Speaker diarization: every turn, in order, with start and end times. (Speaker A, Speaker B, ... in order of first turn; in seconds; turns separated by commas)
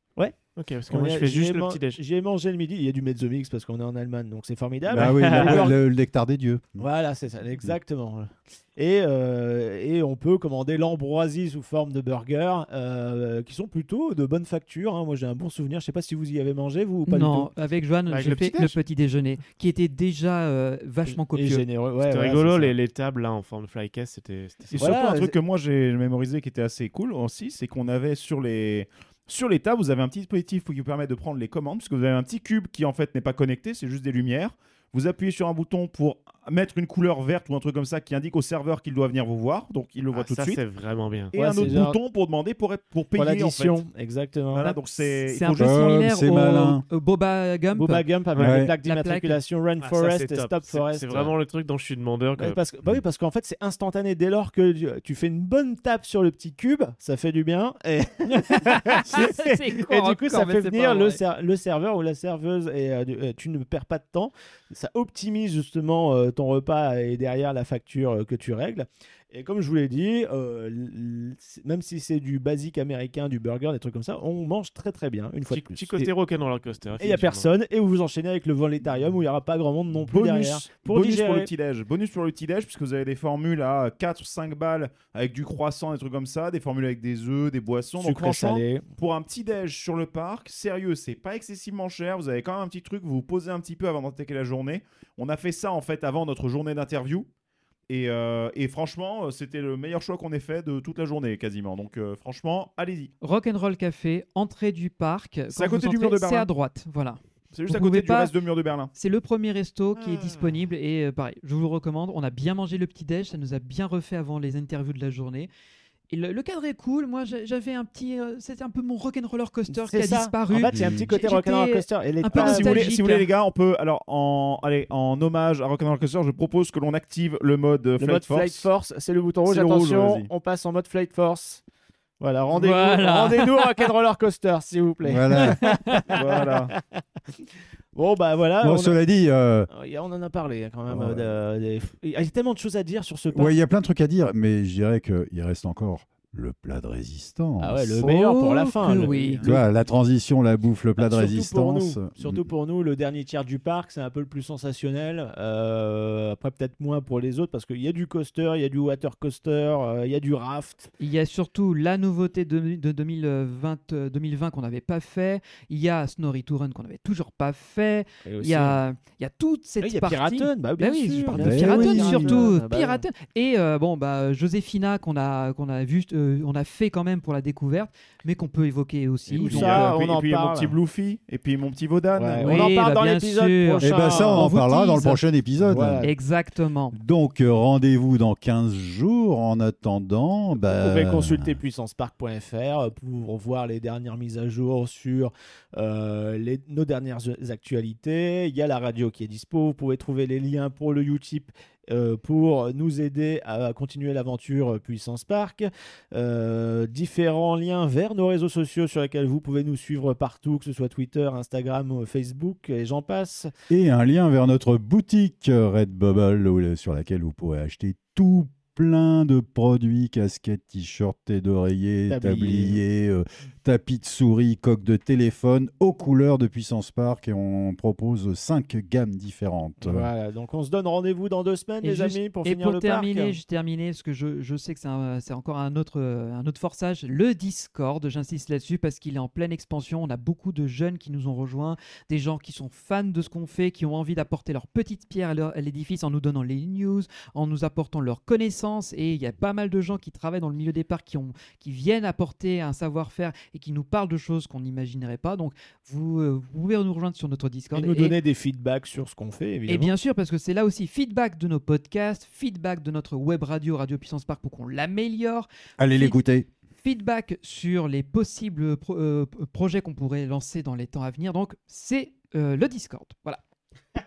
Speaker A: 0.6-2.0, Speaker B: 0.9-5.8, Speaker C: 4.9-6.9, Speaker A: 5.0-5.7, Speaker B: 6.8-17.5, Speaker D: 17.1-21.7, Speaker A: 18.1-18.8, Speaker B: 21.1-22.8, Speaker A: 22.0-24.9, Speaker E: 24.7-40.6, Speaker B: 24.8-25.4, Speaker A: 40.1-41.3, Speaker E: 41.3-43.8, Speaker B: 41.3-42.0, Speaker B: 43.1-44.8, Speaker E: 44.5-45.9, Speaker D: 45.2-48.1, Speaker C: 45.6-46.8, Speaker B: 47.7-51.4, Speaker A: 48.3-48.6, Speaker C: 48.4-48.7, Speaker D: 48.7-49.4, Speaker A: 49.8-52.6, Speaker B: 52.4-76.1, Speaker D: 58.5-61.2, Speaker A: 75.5-77.5, Speaker B: 77.0-81.5, Speaker E: 80.1-97.3, Speaker B: 88.0-88.9, Speaker E: 97.9-103.1, Speaker D: 103.2-108.3, Speaker E: 105.5-106.5, Speaker E: 107.5-108.9, Speaker D: 109.0-115.5, Speaker B: 110.0-110.6, Speaker D: 116.1-123.3, Speaker B: 119.7-123.0, Speaker C: 120.7-121.1, Speaker E: 122.3-128.7, Speaker B: 128.0-131.6, Speaker E: 129.4-130.3, Speaker B: 132.2-136.8, Speaker D: 132.5-133.8, Speaker C: 135.0-135.6, Speaker D: 135.4-136.1, Speaker E: 136.1-136.7, Speaker B: 137.4-139.0, Speaker C: 138.6-139.7, Speaker B: 139.7-143.5, Speaker C: 140.9-141.3, Speaker C: 143.3-148.2, Speaker B: 147.6-149.7, Speaker D: 148.0-149.4, Speaker C: 149.4-152.5, Speaker B: 151.0-160.9, Speaker D: 161.0-179.9, Speaker B: 168.2-168.8, Speaker B: 169.8-173.0, Speaker C: 171.3-172.5, Speaker B: 179.3-180.8, Speaker E: 179.4-182.7, Speaker B: 182.1-184.5, Speaker D: 182.4-185.2, Speaker C: 183.8-186.1, Speaker B: 185.6-186.1, Speaker D: 186.0-187.0, Speaker C: 186.9-191.6, Speaker B: 190.6-213.5, Speaker C: 213.7-230.1, Speaker B: 222.1-222.8, Speaker B: 229.8-233.4, Speaker D: 231.8-258.2, Speaker B: 257.7-259.9, Speaker D: 259.7-266.2, Speaker C: 265.8-266.5, Speaker D: 266.8-273.4